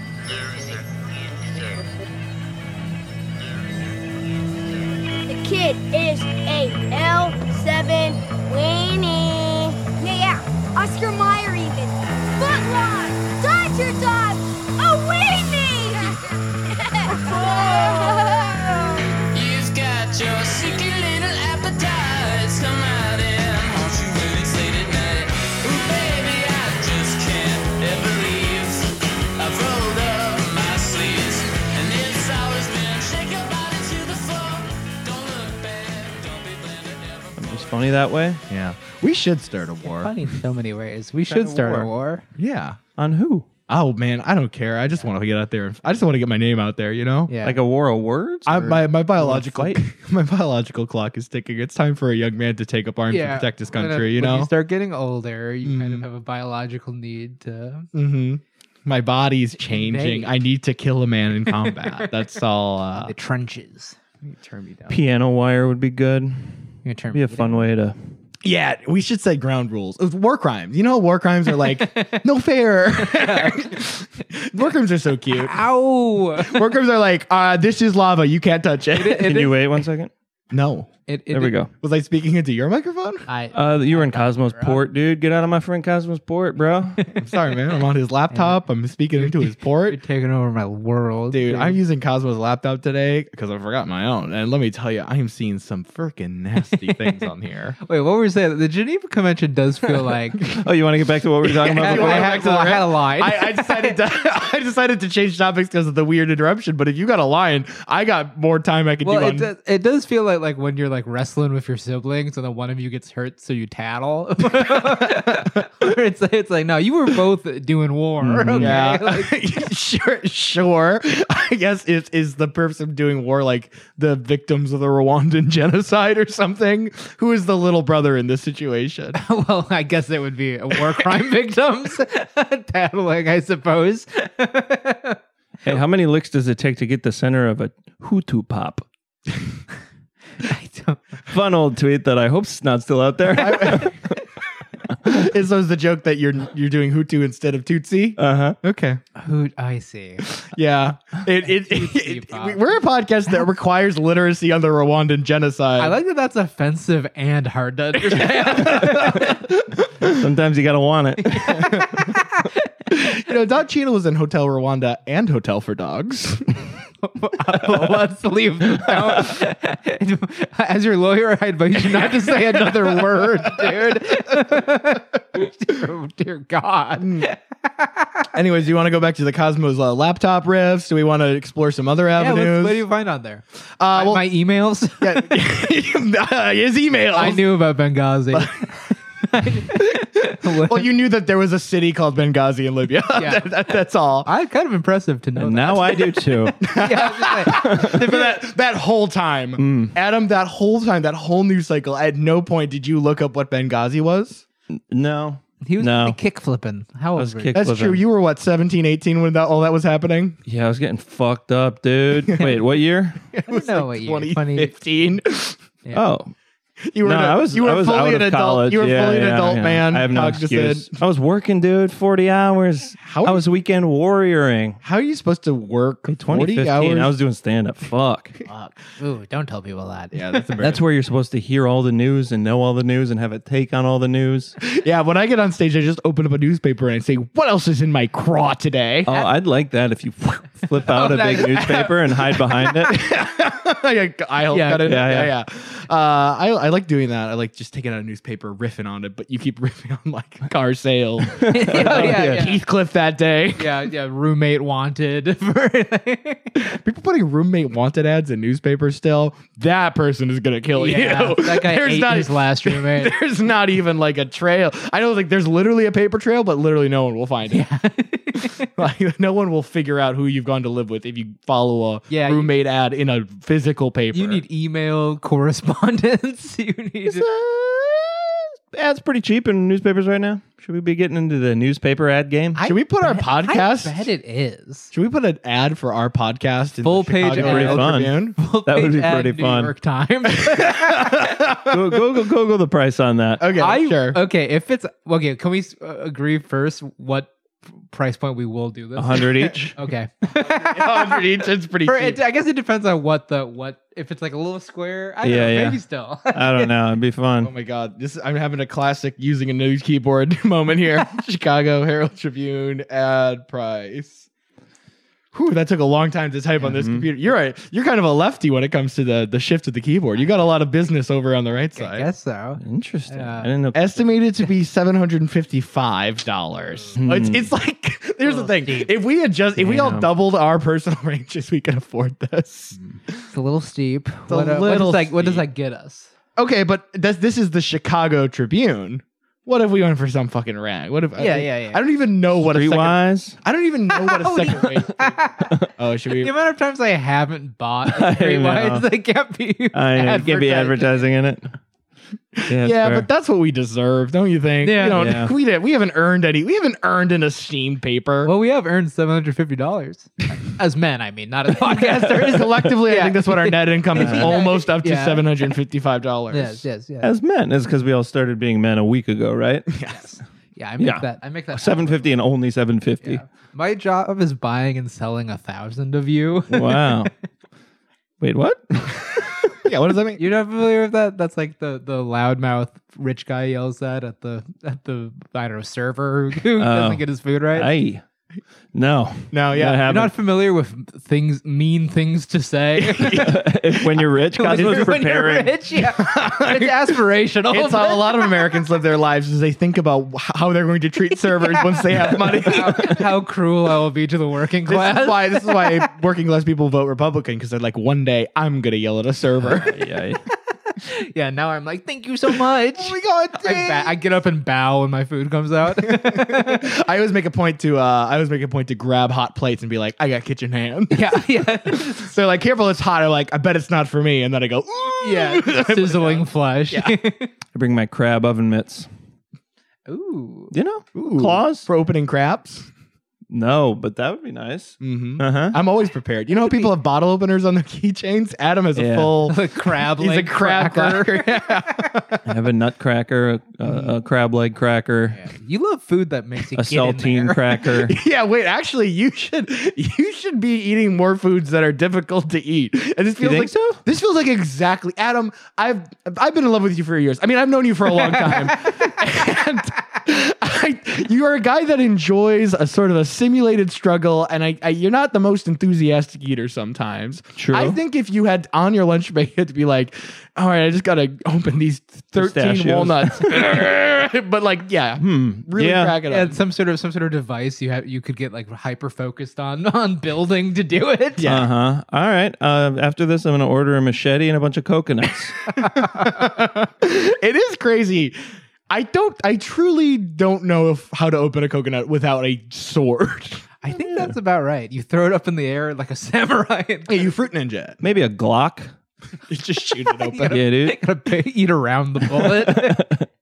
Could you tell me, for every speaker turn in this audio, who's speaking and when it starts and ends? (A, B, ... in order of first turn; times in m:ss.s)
0:01.4-0:01.8 A
0:05.3-0:19.0 A
0:17.3-0:18.6 B
0:19.2-0:37.7 B
0:37.4-0:38.4 C
0:38.5-0:40.1 D
0:39.8-0:42.2 E
0:41.3-0:41.9 C
0:42.4-0:42.8 D
0:43.0-0:43.5 C
0:43.7-0:47.3 D
0:47.3-0:47.6 E
0:47.4-0:49.8 C
0:48.5-0:54.5 D
0:53.1-0:57.9 E
0:55.6-0:56.1 D
0:57.9-1:03.1 D
0:59.6-1:00.3 E
1:01.5-1:02.1 E
1:03.0-1:04.0 E
1:04.2-1:05.0 D
1:04.9-1:06.5 C
1:06.8-1:07.7 E
1:07.1-1:08.0 C
1:08.4-1:15.6 D
1:11.5-1:12.2 E
1:13.0-1:13.8 E
1:15.3-1:16.7 E
1:16.4-1:19.4 D
1:18.9-1:19.6 E
1:19.2-1:20.1 C
1:20.5-1:20.9 D
1:21.1-1:21.6 E
1:21.3-1:21.7 C
1:21.8-1:23.3 D
1:23.3-1:24.8 E
1:23.5-1:27.0 C
1:27.0-1:27.3 E
1:27.1-1:30.0 D
1:28.3-1:28.6 E
1:29.2-1:31.8 E
1:31.3-1:37.8 D
1:36.8-1:37.2 E
1:37.8-1:40.5 E
1:40.4-1:42.4 C
1:41.6-1:49.5 D
1:41.7-1:44.0 E
1:49.0-1:59.4 E
1:54.7-1:55.5 D
1:58.3-2:09.2 D
1:58.4-1:58.8 C
2:09.1-2:15.2 E
2:15.6-2:18.8 C
2:20.4-2:21.0 E
2:21.3-2:24.2 C
2:23.4-2:23.9 D
2:25.0-2:29.0 D
2:28.2-2:28.6 C
2:29.2-2:30.3 E
2:30.3-2:36.0 D
2:31.4-2:32.7 E
2:35.8-2:39.4 E
2:38.3-2:39.0 D
2:38.6-2:41.6 C
2:41.3-2:42.6 E
2:41.4-2:42.2 D
2:42.9-2:46.5 D
2:47.0-2:58.3 E
2:48.8-2:49.4 D
2:52.5-2:53.7 D
2:57.0-2:57.3 D
2:58.3-3:02.8 D
3:02.2-3:05.4 E
3:03.8-3:04.3 D
3:05.0-3:07.5 D
3:07.1-3:10.9 E
3:08.3-3:08.8 D
3:09.7-3:14.3 D
3:13.1-3:13.5 E
3:14.2-3:18.4 E
3:15.4-3:16.6 C
3:16.6-3:24.4 D
3:17.5-3:18.1 C
3:19.6-3:19.9 C
3:24.9-3:26.2 C
3:25.6-3:27.6 E
3:27.2-3:28.0 C
3:27.5-3:30.4 D
3:30.5-3:33.2 C
3:32.2-3:32.6 D
3:33.3-3:35.6 D
3:33.5-3:34.8 E
3:35.9-3:36.3 C
3:36.9-3:41.0 D
3:37.0-3:44.8 C
3:43.0-3:43.5 D
3:44.8-3:47.1 D
3:46.1-3:48.4 C
3:48.5-3:50.4 E
3:50.1-3:50.8 D
3:50.6-3:54.6 C
3:54.6-3:59.1 D
3:59.0-4:03.0 C
4:00.8-4:02.7 E
4:02.8-4:13.9 D
4:04.5-4:05.0 E
4:04.8-4:05.3 C
4:11.4-4:12.5 C
4:11.4-4:12.6 E
4:13.6-4:16.6 E
4:16.6-4:27.6 D
4:20.8-4:23.1 E
4:27.5-4:28.7 E
4:28.6-4:34.4 D
4:32.1-4:32.5 E
4:34.1-4:37.3 E
4:37.1-4:42.6 C
4:42.6-4:44.9 E
4:42.6-4:44.1 D
4:44.9-4:48.4 D
4:46.8-4:51.3 E
4:47.3-4:49.7 C
4:50.5-4:52.0 D
4:51.7-4:53.5 C
4:53.4-4:54.2 D
4:53.6-4:57.3 E
4:57.9-5:06.7 E
4:59.0-4:59.8 C
5:00.3-5:02.2 D
5:05.2-5:07.5 C
5:07.4-5:14.3 D
5:15.3-5:22.1 D
5:16.6-5:17.1 C
5:21.8-5:23.5 E
5:22.6-5:24.0 C
5:23.7-5:32.8 D
5:27.0-5:27.5 C
5:28.2-5:29.0 E
5:29.6-5:30.1 C
5:33.3-5:36.1 E
5:34.3-5:35.4 D
5:36.4-5:45.2 D
5:41.2-5:41.8 E
5:42.4-5:43.4 C
5:43.9-5:45.6 E
5:45.8-5:46.3 D
5:46.2-5:51.1 E
5:47.9-5:48.9 C
5:49.7-5:51.4 C
5:52.4-5:58.3 D
5:52.5-5:53.1 C
5:54.6-5:55.0 E
5:54.9-5:55.3 C
5:58.2-6:05.4 E
6:01.5-6:06.6 D
6:04.0-6:04.4 C
6:06.3-6:07.1 E
6:07.0-6:09.7 C
6:09.7-6:10.0 D
6:10.0-6:12.2 E
6:10.8-6:13.2 C
6:13.0-6:17.1 E
6:16.5-6:17.1 C
6:18.2-6:19.4 C
6:19.6-6:20.2 D
6:20.2-6:27.7 E
6:26.6-6:28.0 C
6:28.7-6:30.1 C
6:29.3-6:29.9 D
6:29.8-6:38.5 E
6:32.8-6:33.5 D
6:33.1-6:35.5 C
6:36.0-6:36.9 D
6:37.5-6:43.0 D
6:41.3-6:45.9 E
6:44.7-6:49.8 D
6:49.5-6:50.2 C
6:50.7-6:56.7 E
6:52.8-6:53.9 D
6:55.8-7:07.0 D
7:00.9-7:02.1 E
7:05.0-7:07.3 E
7:07.5-7:08.9 C
7:09.9-7:10.5 E
7:10.5-7:11.7 C
7:11.0-7:12.7 D
7:13.3-7:15.6 C
7:14.8-7:22.2 D
7:18.8-7:19.1 C
7:19.3-7:22.0 E
7:22.3-7:25.2 C
7:23.7-7:23.9 D
7:25.1-7:27.6 E
7:26.6-7:28.0 C
7:27.8-7:56.4 D
7:33.2-7:33.8 C
7:38.1-7:39.0 E
7:47.4-7:47.8 C
7:52.2-7:53.5 C
7:55.0-7:56.0 C
7:56.0-8:01.3 E
8:01.2-8:01.5 D
8:01.3-8:05.5 C
8:05.6-8:06.2 E
8:05.6-8:08.2 D
8:08.7-8:13.4 D
8:13.6-8:17.1 E
8:13.8-8:14.1 C
8:16.9-8:17.8 D
8:17.8-8:18.7 C
8:19.3-8:20.4 D
8:20.0-8:22.9 E
8:20.3-8:20.8 C
8:22.2-8:23.0 C